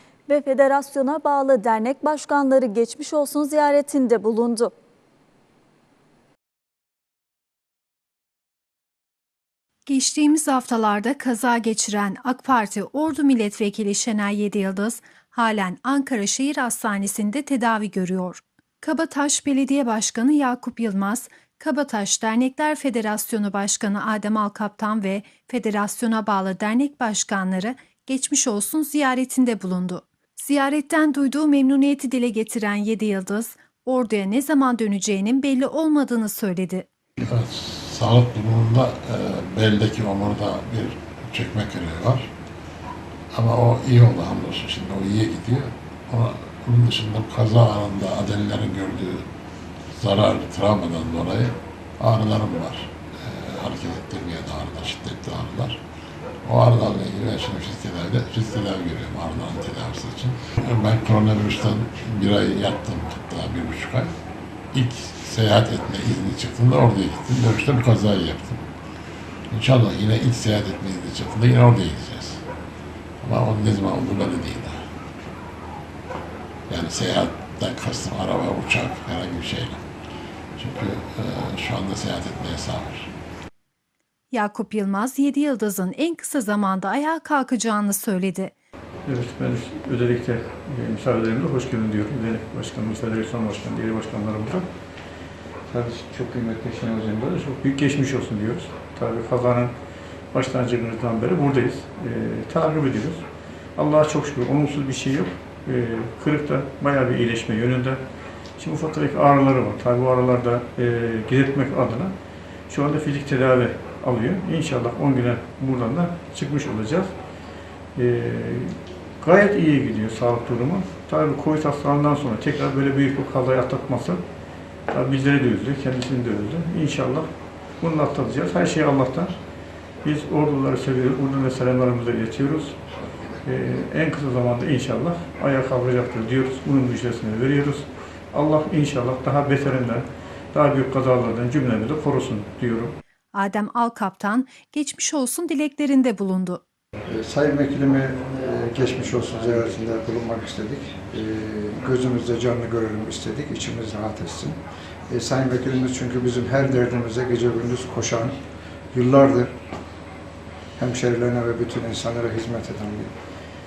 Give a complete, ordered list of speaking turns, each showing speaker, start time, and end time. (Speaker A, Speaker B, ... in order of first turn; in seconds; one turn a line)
Speaker A: 0.3-4.7
Speaker B: 9.9-36.9
Speaker C: 37.2-42.3
Speaker C: 43.3-49.2
Speaker C: 50.0-55.8
Speaker C: 56.4-64.1
Speaker C: 64.7-68.7
Speaker C: 69.5-72.4
Speaker C: 73.2-74.8
Speaker C: 76.7-79.8
Speaker C: 80.6-83.1
Speaker B: 84.3-88.5
Speaker D: 89.1-94.7
Speaker D: 95.7-99.7
Speaker D: 100.3-103.2
Speaker D: 103.8-108.0
Speaker D: 108.6-112.2
Speaker D: 112.7-117.1
Speaker D: 118.0-124.2
Speaker D: 124.9-127.3
Speaker D: 127.8-129.4
Speaker D: 130.0-132.8
Speaker D: 133.4-143.0
Speaker B: 143.3-146.6
Speaker E: 147.1-154.6
Speaker E: 155.1-158.4
Speaker E: 158.9-159.6
Speaker E: 160.8-163.1